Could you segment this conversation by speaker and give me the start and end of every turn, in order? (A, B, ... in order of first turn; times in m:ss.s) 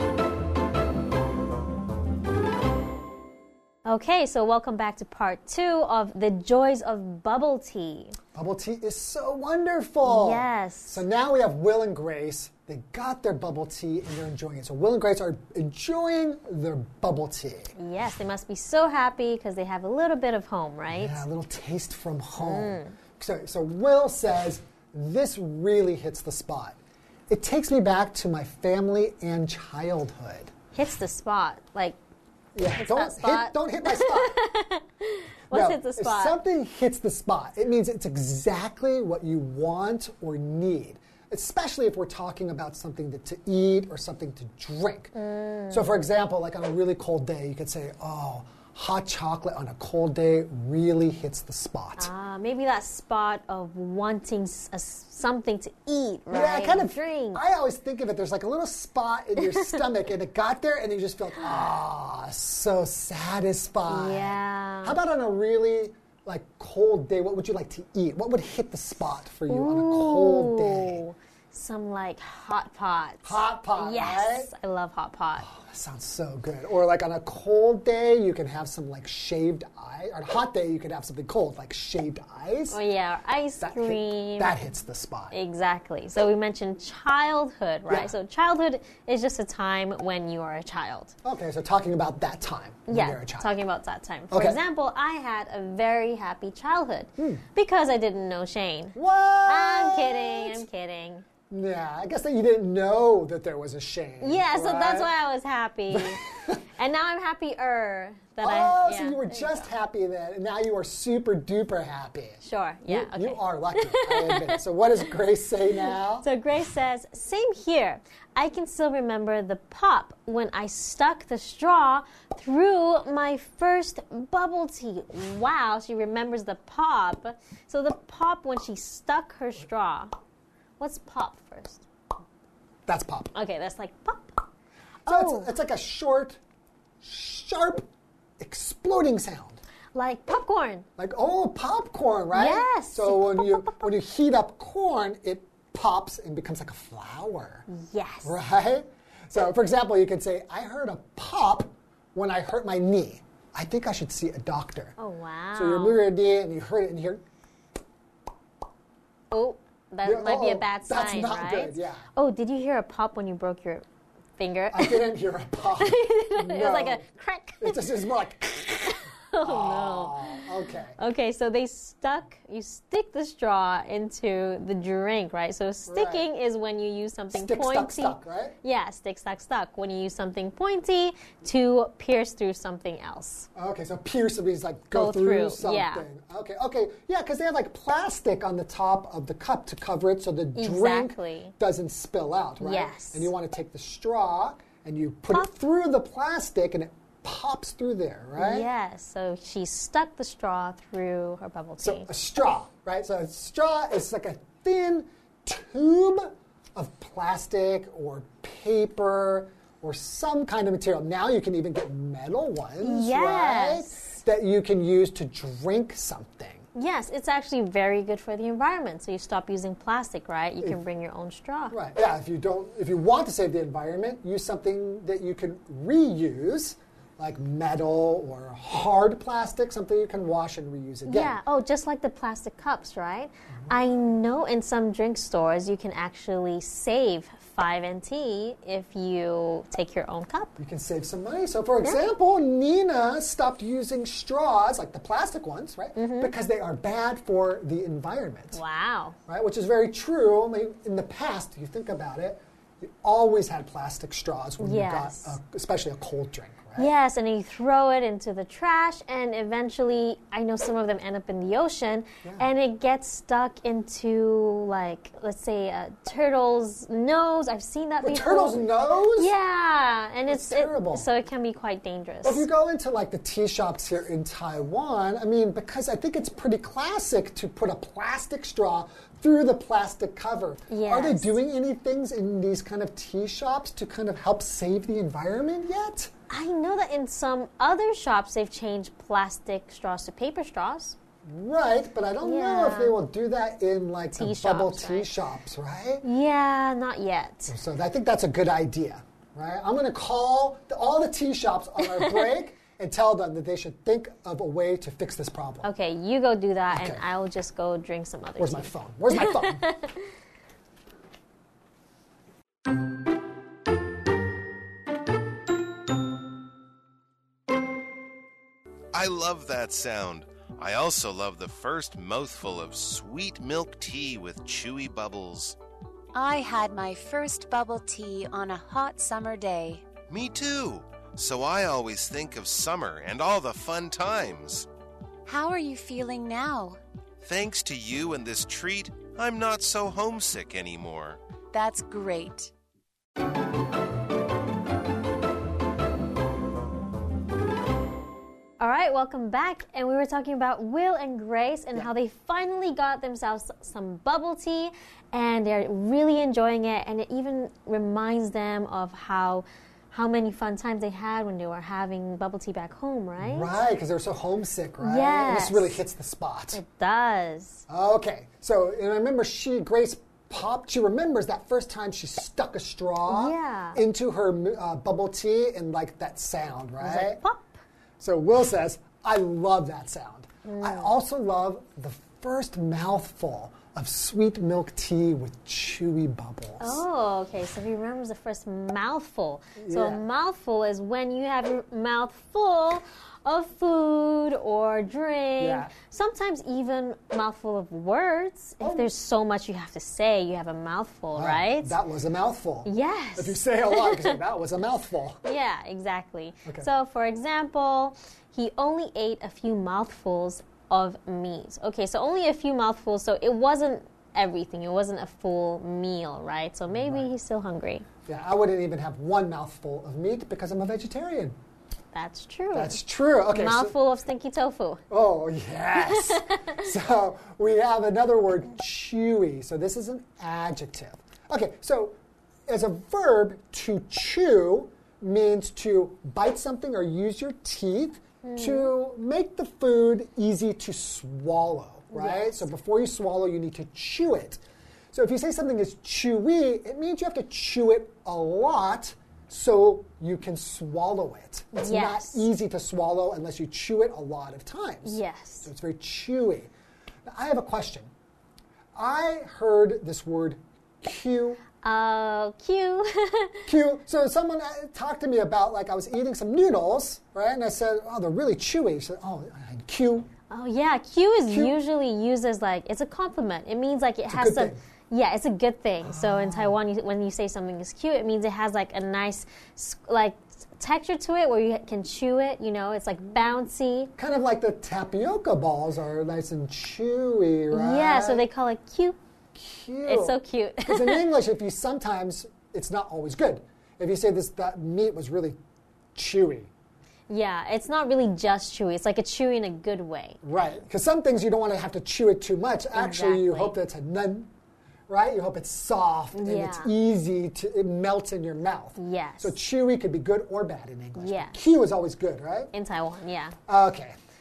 0:03.8-0:08.2 A
0:08.3-0:17.7 B
0:10.0-0:11.0 A
0:17.8-0:21.2 A
0:20.9-0:26.8 B
0:22.4-0:22.9 A
0:27.3-0:30.5 B
0:30.7-0:32.0 A
0:32.5-0:34.4 B
0:32.7-0:36.4 A
0:35.5-0:45.1 B
0:45.1-0:46.0 A
0:45.7-0:52.1 B
0:52.0-0:57.4 A
0:56.3-1:11.0 B
0:59.4-0:59.8 A
1:03.9-1:05.0 A
1:09.5-1:15.4 A
1:13.2-1:14.5 B
1:15.4-1:22.8 B
1:22.7-1:24.6 A
1:23.6-1:25.4 B
1:25.3-1:31.1 A
1:27.9-1:28.1 B
1:31.2-1:33.6 B
1:32.9-1:41.2 A
1:34.3-1:34.6 B
1:37.2-1:37.4 B
1:39.0-1:40.6 B
1:41.5-1:45.1 B
1:44.2-1:49.7 A
1:45.9-1:46.6 B
1:48.4-1:56.2 B
1:52.4-1:54.5 A
1:56.2-2:10.1 A
2:10.8-2:11.8 A
2:12.9-2:13.3 B
2:13.3-2:14.4 A
2:15.0-2:15.5 A
2:15.1-2:16.4 B
2:17.0-2:17.8 B
2:18.4-2:19.6 B
2:19.9-2:20.8 A
2:21.0-2:27.7 B
2:22.3-2:23.7 A
2:27.7-2:28.3 A
2:28.2-2:35.0 B
2:35.0-2:36.0 A
2:35.6-2:37.2 B
2:39.3-2:43.8 A
2:40.0-2:42.1 B
2:44.4-2:45.0 A
2:44.7-2:47.0 B
2:45.8-2:47.9 A
2:47.6-2:51.0 B
2:49.0-2:50.4 A
2:51.0-3:03.5 A
2:55.9-2:56.2 B
2:57.3-2:58.6 B
3:03.5-3:18.7 B
3:04.9-3:06.0 A
3:10.6-3:11.5 A
3:12.6-3:13.3 A
3:18.4-3:22.1 A
3:21.8-3:36.6 B
3:32.8-3:34.2 A
3:36.7-3:41.8 A
3:41.7-3:51.4 B
3:51.1-4:00.5 A
4:00.6-4:08.6 B
4:06.0-4:06.3 A
4:08.5-4:09.2 A
4:09.3-4:16.9 B
4:14.6-4:15.3 A
4:16.8-4:28.6 A
4:28.0-4:29.3 B
4:29.2-4:32.4 A
4:30.3-4:31.1 B
4:32.2-4:46.1 B
4:40.7-4:41.4 A
4:46.3-4:51.0 A
4:51.2-4:56.0 B
4:52.2-4:53.0 A
4:54.2-4:55.1 A
4:56.0-4:57.5 A
4:57.5-5:05.7 B
5:05.6-5:08.7 A
5:06.7-5:07.0 B
5:08.4-5:09.6 B
5:09.4-5:09.9 A
5:18.9-5:25.6 C
5:26.1-5:29.8 D
5:30.1-5:34.7 C
5:35.2-5:36.8 D
5:37.2-5:41.2 C
5:41.5-5:42.5 D
5:48.6-6:03.6 A
6:03.2-6:06.6 B
6:04.8-6:05.8 A
6:06.5-6:07.6 A
6:07.7-6:17.2 B
6:13.1-6:13.8 A
6:16.8-6:17.6 A
6:18.0-6:26.8 B
6:20.4-6:20.9 A
6:26.6-6:41.7 A
6:29.6-6:30.0 B
6:35.4-6:35.7 B
6:38.6-6:38.9 B
6:41.1-6:45.2 B
6:42.6-6:44.2 A
6:45.2-6:57.8 A
6:56.7-6:57.1 B
6:58.1-7:01.4 B
7:01.9-7:02.8 A
7:02.5-7:03.7 B
7:03.3-7:04.8 A
7:04.9-7:12.0 B
7:12.5-7:24.4 B
7:18.2-7:18.7 A
7:21.9-7:22.4 A
7:24.9-7:36.5 B
7:31.5-7:32.3 A
7:34.8-7:35.5 A
7:37.0-7:37.9 B
7:38.7-7:41.4 B
7:41.6-7:43.4 A
7:43.4-7:50.1 B
7:50.3-8:03.9 A
7:51.3-7:51.5 B
7:54.1-7:54.6 B
7:55.8-7:56.6 B
8:04.0-8:08.3 B
8:07.5-8:09.0 A
8:09.3-8:15.4 B
8:09.8-8:11.1 A
8:15.9-8:16.5 B
8:17.1-8:20.2 A
8:20.2-8:24.3 B
8:22.7-8:23.5 A
8:24.9-8:32.5 B
8:26.1-8:26.7 A
8:28.8-8:29.3 A
8:31.0-8:31.4 A
8:32.5-8:33.3 A
8:33.5-8:34.0 B